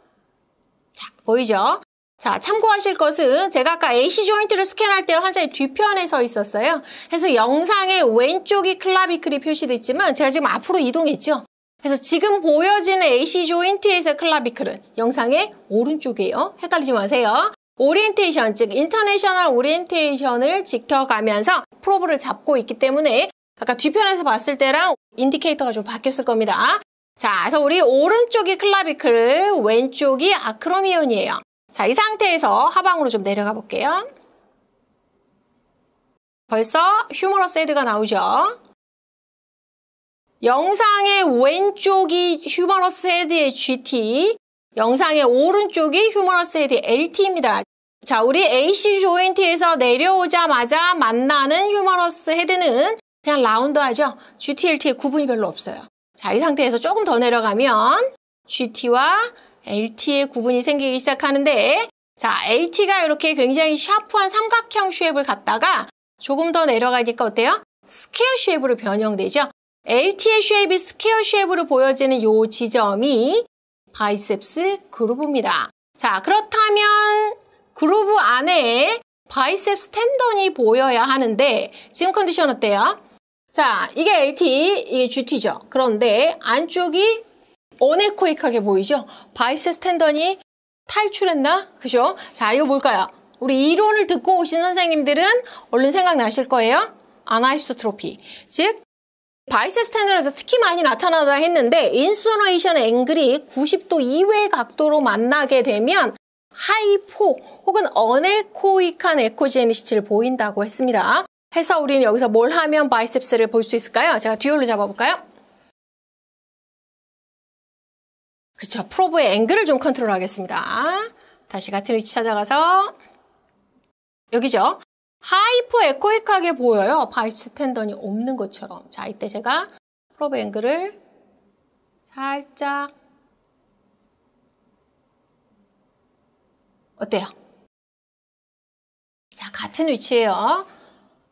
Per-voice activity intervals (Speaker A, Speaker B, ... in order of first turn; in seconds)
Speaker A: 0.9-34.1, 36.5-38.6, 40.4-83.0, 83.5-87.2, 87.8-98.8, 99.5-115.2, 118.6-122.9, 124.3-131.0, 132.1-132.9, 137.0-137.3, 139.3-140.7